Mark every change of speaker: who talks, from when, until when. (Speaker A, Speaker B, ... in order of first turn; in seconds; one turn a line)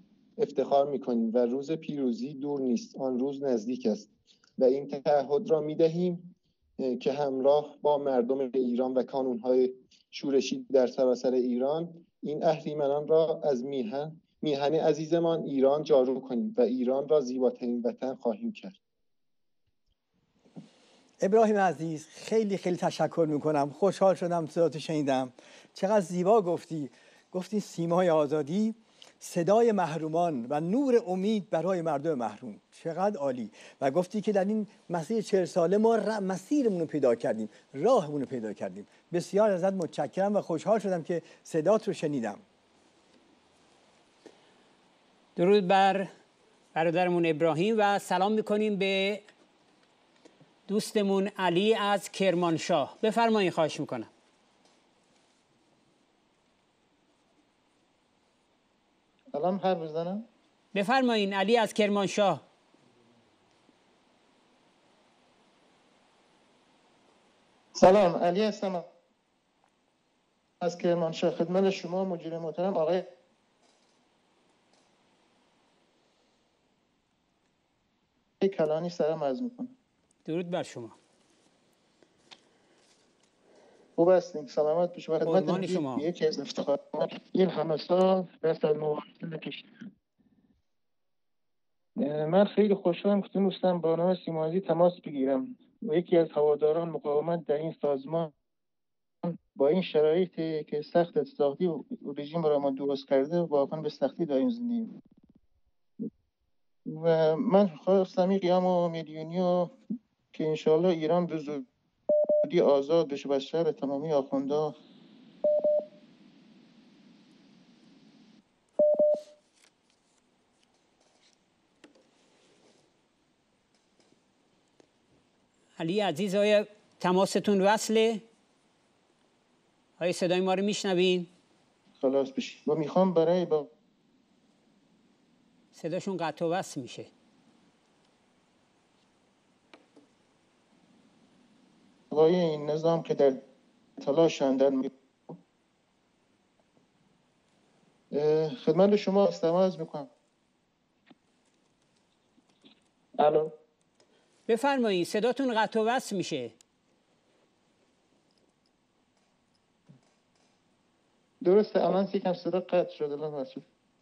Speaker A: 0.4-18.8
Speaker B: 21.2-42.4
Speaker C: 45.4-46.1
Speaker C: 46.8-49.2
Speaker C: 50.7-54.1
Speaker D: 59.3-60.3
Speaker C: 60.7-62.4
Speaker D: 67.8-68.8
Speaker D: 70.6-73.1
Speaker D: 78.4-79.7
Speaker C: 80.3-81.0
Speaker D: 84.0-89.7
Speaker C: 85.2-86.1
Speaker D: 92.0-98.3
Speaker D: 99.2-105.0
Speaker D: 106.9-109.7
Speaker D: 110.3-111.7
Speaker D: 112.4-114.8
Speaker C: 125.8-128.2
Speaker C: 130.0-131.3
Speaker D: 132.0-133.7
Speaker C: 135.8-137.1
Speaker D: 142.1-143.4
Speaker D: 144.0-145.3
Speaker D: 148.1-150.1
Speaker D: 153.2-153.5
Speaker C: 154.5-156.5
Speaker D: 161.4-163.6